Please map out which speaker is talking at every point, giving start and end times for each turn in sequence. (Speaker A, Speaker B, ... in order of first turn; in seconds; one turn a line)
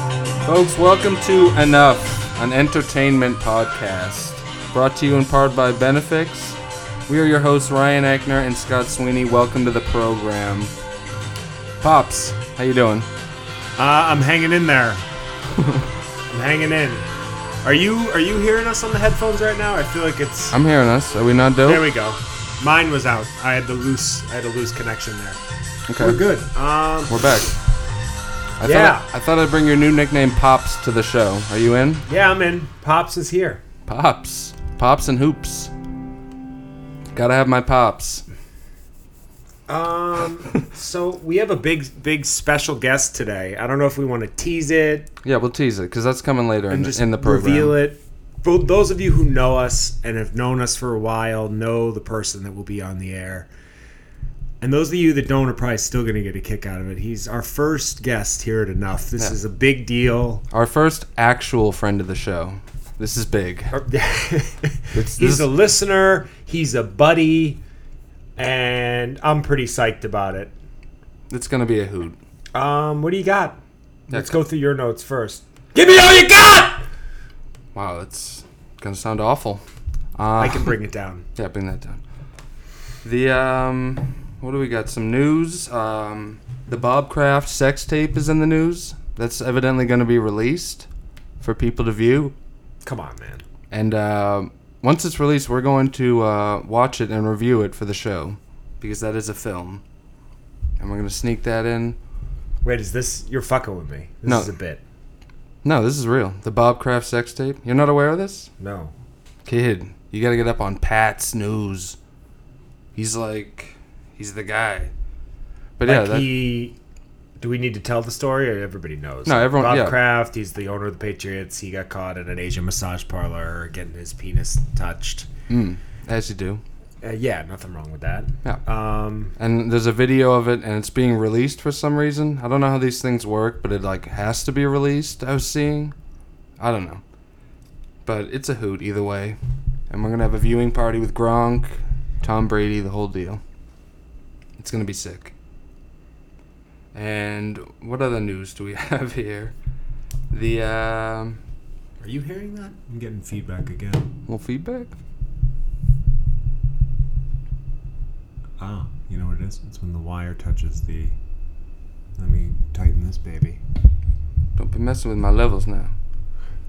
Speaker A: 0.5-10.7
Speaker A: 11.8-13.1
Speaker B: 13.8-15.1
Speaker A: 15.6-15.9
Speaker B: 16.3-17.1
Speaker B: 17.6-20.6
Speaker A: 20.5-21.9
Speaker B: 21.6-25.4
Speaker A: 25.9-26.2
Speaker B: 26.0-27.4
Speaker A: 27.1-27.5
Speaker A: 28.6-32.1
Speaker B: 28.6-29.1
Speaker B: 32.1-33.6
Speaker A: 33.9-35.7
Speaker A: 37.1-38.2
Speaker B: 39.7-45.1
Speaker A: 45.2-47.8
Speaker B: 46.7-53.5
Speaker B: 54.6-60.5
Speaker A: 60.5-63.8
Speaker B: 63.7-67.6
Speaker A: 64.9-65.5
Speaker B: 68.4-70.5
Speaker A: 71.3-72.2
Speaker B: 72.5-76.8
Speaker A: 74.1-74.3
Speaker A: 77.7-79.6
Speaker A: 80.2-80.7
Speaker B: 80.4-81.2
Speaker A: 81.4-82.0
Speaker A: 83.0-90.9
Speaker A: 91.4-92.3
Speaker B: 92.8-93.4
Speaker A: 93.7-99.8
Speaker A: 100.8-102.0
Speaker B: 102.6-104.8
Speaker A: 105.6-108.5
Speaker B: 108.6-108.9
Speaker A: 109.5-112.0
Speaker A: 113.0-114.9
Speaker A: 115.8-116.3
Speaker B: 115.8-116.8
Speaker B: 117.4-125.3
Speaker A: 119.2-120.0
Speaker A: 125.5-126.6
Speaker B: 127.0-129.3
Speaker A: 129.4-135.9
Speaker A: 136.6-137.0
Speaker A: 138.1-139.4
Speaker A: 139.9-143.4
Speaker A: 144.6-145.3
Speaker A: 146.9-149.5
Speaker A: 150.3-151.4
Speaker B: 152.0-154.1
Speaker A: 154.3-155.0
Speaker B: 158.6-161.2
Speaker B: 162.2-163.6
Speaker A: 164.6-165.9